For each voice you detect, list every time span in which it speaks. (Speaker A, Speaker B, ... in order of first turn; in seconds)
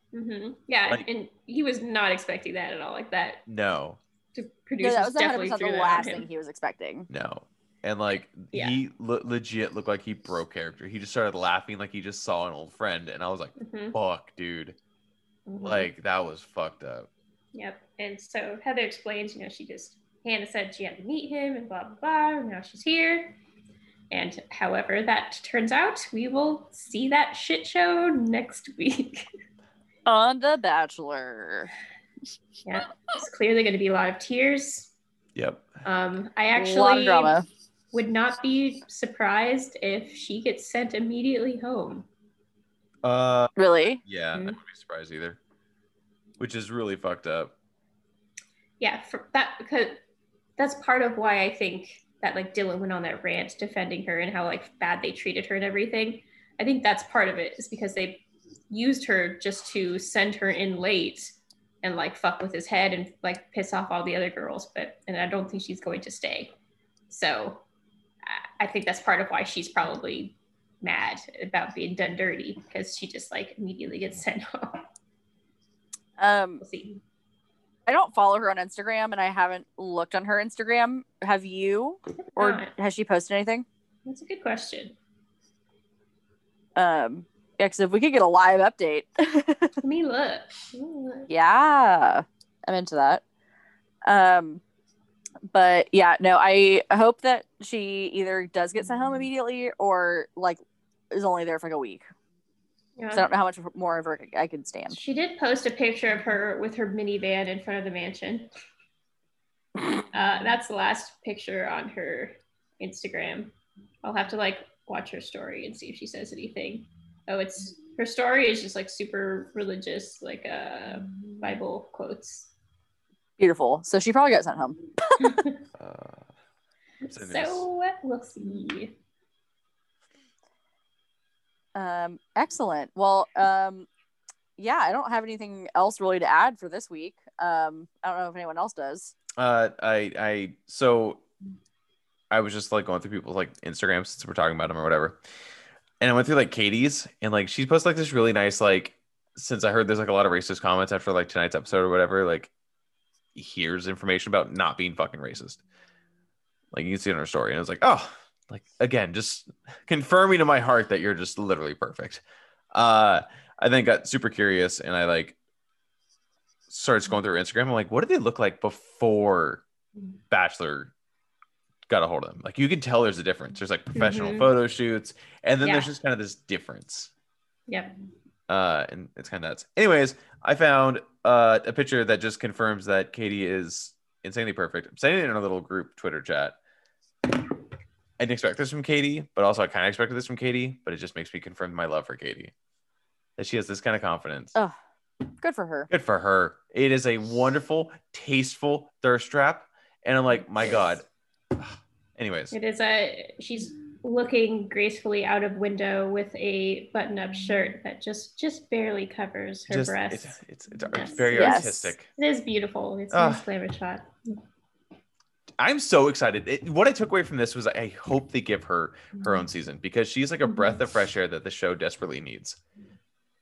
Speaker A: 0.1-3.4, 4.3-6.2, 8.5-8.8, 13.6-14.0, 15.5-15.9, 17.5-23.4, 24.1-29.3, 32.6-34.9, 35.8-37.4, 37.9-42.1, 48.8-50.0, 50.6-66.5, 67.1-67.6, 68.2-74.8, 76.6-77.0, 82.3-82.7, 84.0-84.9, 89.8-91.3, 103.0-103.3, 104.9-108.5, 110.1-113.5, 114.0-122.5, 125.2-125.6, 127.0-128.9, 173.9-174.5, 202.5-210.4, 210.9-214.4
Speaker B: 3.5-4.0, 7.1-14.8, 15.6-17.1, 35.3-35.8, 43.0-43.5, 44.0-45.4, 46.4-47.5, 125.8-126.2, 127.1-127.7, 139.4-141.2, 142.3-145.2, 146.0-152.5, 153.3-155.6, 156.7-165.3, 166.7-169.6, 170.3-170.9, 171.9-177.1, 178.5-186.6, 188.2-192.5, 193.4-194.5, 195.9-201.0, 201.6-202.5, 209.7-212.1, 213.1-213.4, 215.6-222.6
Speaker C: 4.8-7.1, 30.1-31.7, 36.6-37.5, 43.6-44.0, 76.2-76.6, 77.8-83.7, 86.8-89.8, 91.3-93.2, 94.0-94.6, 95.5-100.6, 101.1-102.0, 103.1-105.0, 123.4-125.3, 131.7-133.9, 134.6-139.1, 195.4-195.9, 211.3-211.9